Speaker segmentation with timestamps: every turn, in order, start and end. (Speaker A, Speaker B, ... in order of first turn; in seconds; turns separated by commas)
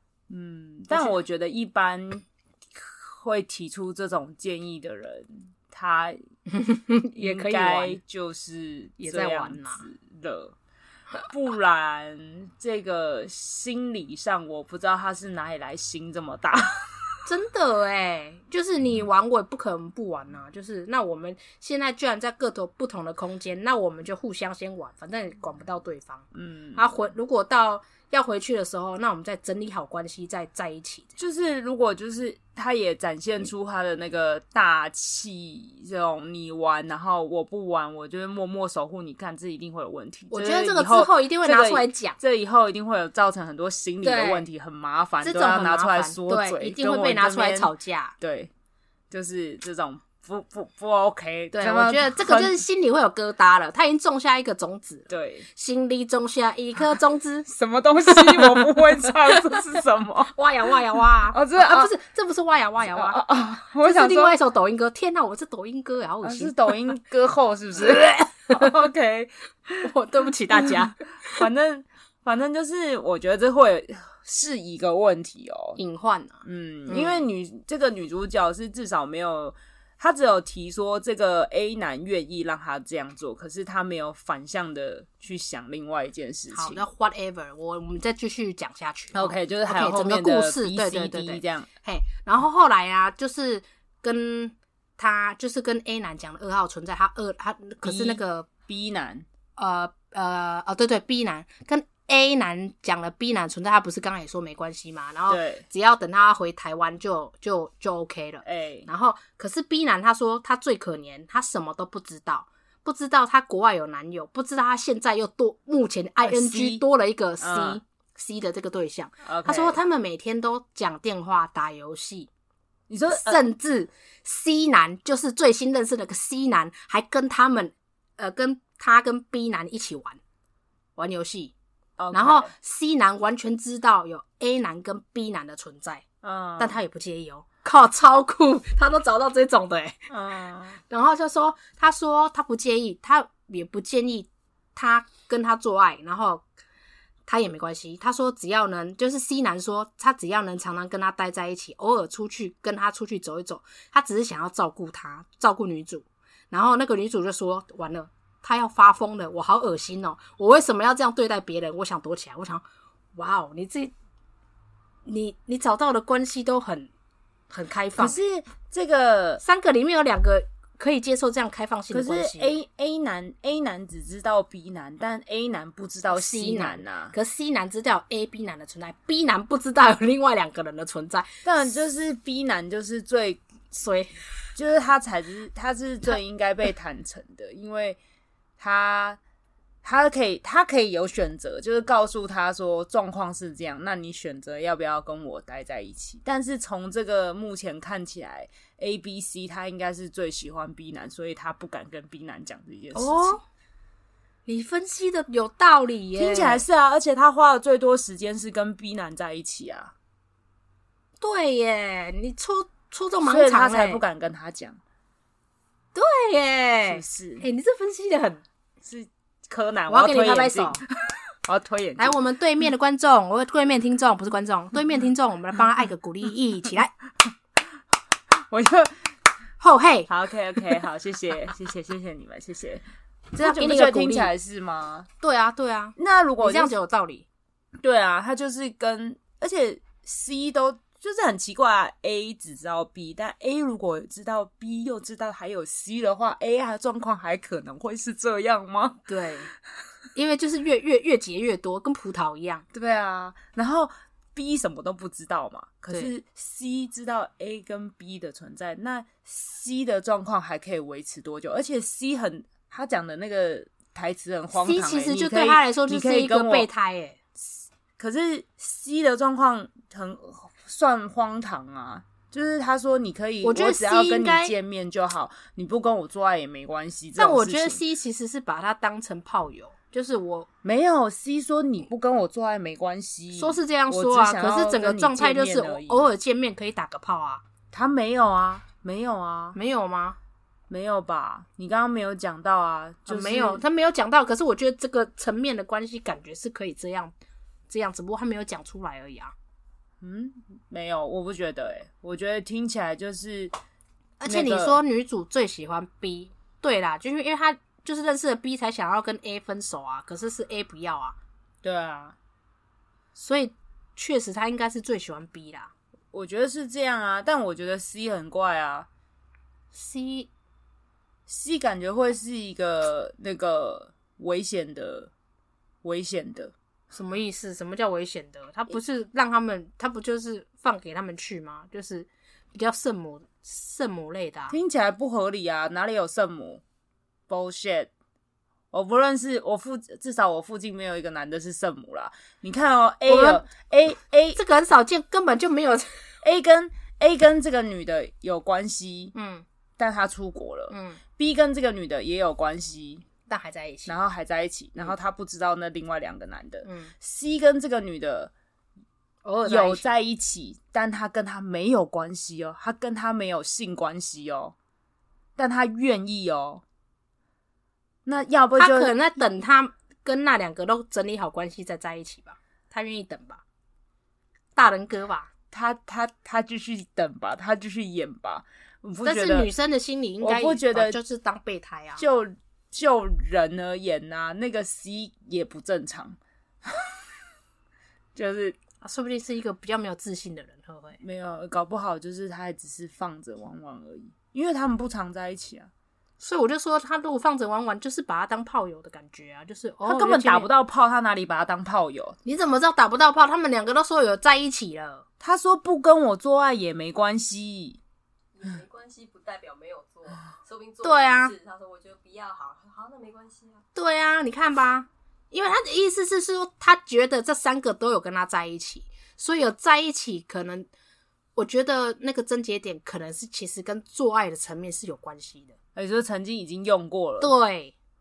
Speaker A: 0.3-6.2, Speaker B: 6.5-8.0, Speaker A: 7.1-10.6, Speaker B: 9.0-9.8, Speaker A: 11.3-17.1, Speaker B: 17.2-31.2, Speaker A: 26.3-26.9, Speaker A: 31.2-48.5, Speaker B: 40.3-42.2, Speaker B: 44.0-44.4, Speaker B: 45.2-48.1, Speaker A: 49.1-52.6, Speaker B: 51.5-57.5, Speaker A: 55.1-55.5, Speaker A: 57.5-60.3, Speaker B: 58.0-59.6, Speaker B: 60.2-66.8, Speaker A: 61.3-61.9, Speaker A: 62.9-64.3, Speaker A: 66.2-69.9, Speaker B: 67.8-68.7, Speaker B: 69.8-71.4, Speaker A: 70.5-75.8, Speaker B: 75.8-77.2, Speaker A: 76.4-86.8, Speaker B: 86.5-98.5, Speaker A: 89.1-91.7, Speaker A: 97.8-99.3, Speaker B: 99.6-122.3, Speaker A: 105.3-105.6, Speaker A: 108.4-108.9, Speaker A: 116.2-116.8, Speaker A: 117.4-117.8, Speaker A: 119.2-119.8, Speaker A: 122.9-123.4, Speaker B: 123.1-130.2, Speaker B: 131.0-131.5, Speaker A: 132.0-132.5, Speaker B: 132.1-136.0, Speaker A: 136.2-136.8, Speaker B: 136.6-140.0, Speaker A: 140.1-140.8, Speaker B: 140.9-146.4, Speaker B: 147.3-162.6, Speaker B: 163.2-163.9, Speaker B: 165.1-166.9, Speaker B: 167.5-168.2, Speaker A: 168.0-169.4, Speaker B: 169.4-172.5, Speaker A: 171.9-177.1, Speaker B: 176.1-181.4, Speaker A: 181.4-183.4, Speaker B: 183.7-184.1, Speaker A: 184.6-188.0, Speaker A: 188.6-189.2, Speaker A: 189.8-203.4, Speaker B: 202.9-203.4, Speaker B: 204.4-206.6, Speaker A: 206.2-209.9, Speaker B: 211.2-214.0, Speaker A: 213.2-214.8, Speaker B: 215.9-218.4, Speaker A: 216.9-217.4, Speaker A: 218.8-220.9, Speaker B: 219.9-220.8, Speaker A: 221.4-222.2, Speaker B: 222.0-226.9, Speaker A: 228.5-229.0, Speaker B: 229.6-230.1, Speaker A: 230.1-232.8, Speaker A: 233.3-235.1, Speaker B: 233.3-234.3, Speaker B: 235.2-237.2, Speaker A: 236.0-236.7, Speaker A: 237.8-249.0, Speaker B: 249.1-249.5, Speaker B: 250.1-252.6, Speaker A: 252.7-266.7, Speaker B: 264.5-267.2, Speaker A: 268.0-277.8, Speaker B: 273.4-274.5, Speaker B: 277.2-280.5, Speaker A: 280.6-286.1, Speaker B: 283.3-287.4, Speaker A: 287.7-289.6, Speaker B: 289.5-290.2, Speaker A: 290.7-293.6, Speaker B: 293.1-297.1, Speaker B: 297.7-299.3, Speaker A: 300.0-303.5, Speaker B: 304.2-311.2, Speaker A: 304.2-304.8, Speaker A: 311.6-312.1, Speaker B: 313.1-315.7, Speaker A: 316.1-318.9, Speaker B: 319.7-320.3, Speaker A: 321.3-325.1, Speaker A: 325.8-326.5, Speaker B: 326.9-334.6, Speaker A: 334.5-336.6, Speaker A: 337.3-337.9, Speaker A: 338.7-344.4, Speaker B: 343.1-343.4, Speaker B: 344.3-346.1, Speaker A: 346.2-349.1, Speaker B: 349.1-349.4, Speaker A: 349.8-353.1, Speaker B: 350.7-351.0, Speaker B: 353.3-353.9, Speaker A: 353.9-358.3, Speaker B: 356.6-356.9, Speaker B: 359.2-359.9, Speaker A: 359.4-364.5, Speaker A: 365.4-366.6, Speaker A: 368.1-368.9, Speaker B: 368.6-373.4, Speaker B: 374.6-375.3, Speaker A: 375.5-379.5, Speaker B: 379.0-382.0, Speaker A: 380.2-381.0, Speaker A: 382.0-386.9, Speaker A: 388.1-388.6, Speaker B: 388.8-391.0, Speaker A: 391.0-395.7, Speaker B: 396.2-400.5, Speaker A: 399.8-402.2, Speaker B: 402.2-405.0, Speaker A: 405.2-407.8, Speaker C: 408.3-413.6, Speaker B: 410.8-411.3, Speaker B: 413.7-420.7, Speaker B: 421.4-425.5, Speaker A: 425.8-427.3, Speaker B: 427.2-427.7